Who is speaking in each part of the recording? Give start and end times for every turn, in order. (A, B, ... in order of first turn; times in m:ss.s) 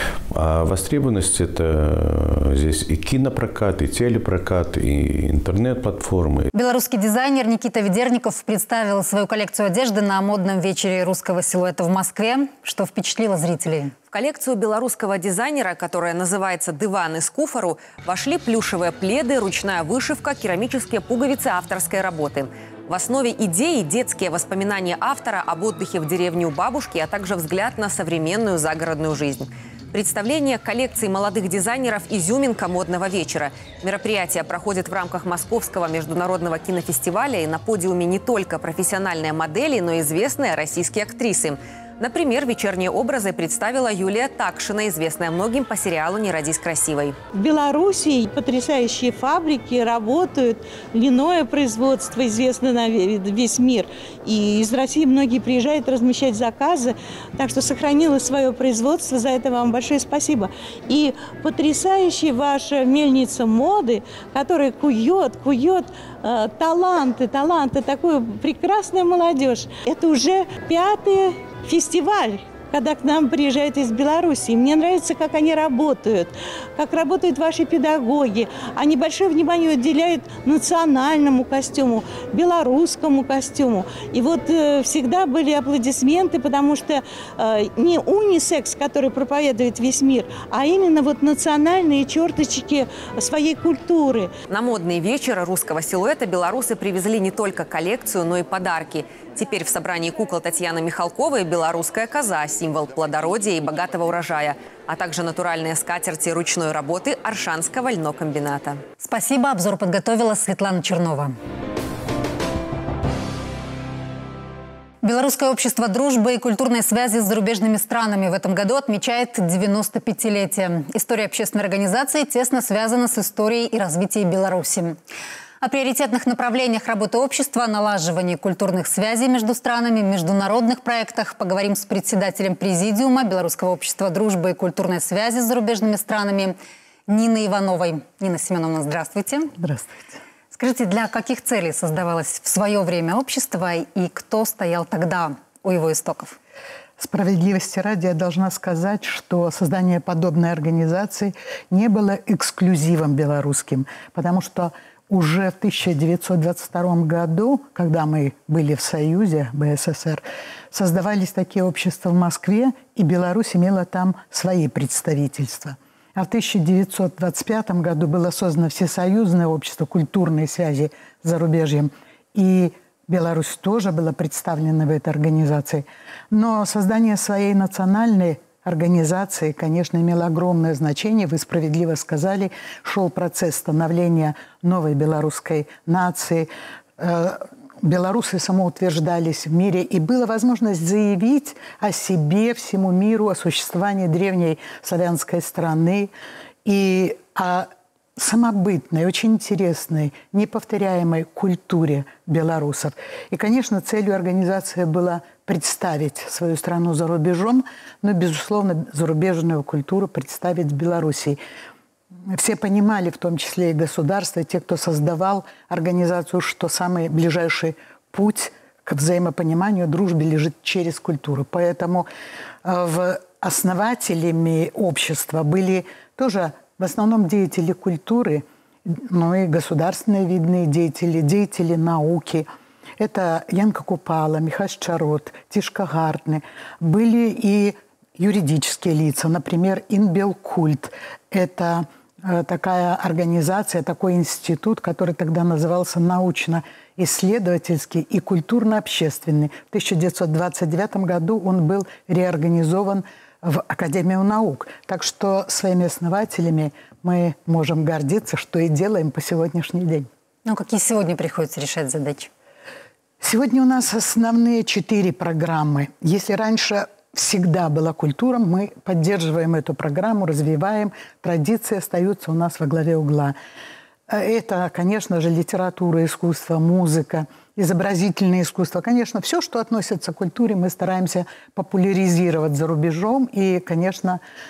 0:00.3-0:06.5 A
0:06.5-0:14.0 B
0:14.1-0:47.2 C
0:47.3-1:34.3 D
1:34.5-1:48.8 C
1:49.0-1:51.4 B
1:55.0-2:05.0 B
2:05.6-2:16.6 B
2:17.1-2:19.5 B
2:19.6-2:20.2 E
2:20.5-2:26.4 B
2:27.0-3:06.5 E
3:07.0-3:16.1 E
3:16.6-3:31.4 E
3:32.3-3:42.1 E
3:42.6-3:52.5 E
3:53.0-4:20.1 E
4:20.4-4:22.3 B
4:23.2-4:33.4 E
4:34.1-4:44.2 E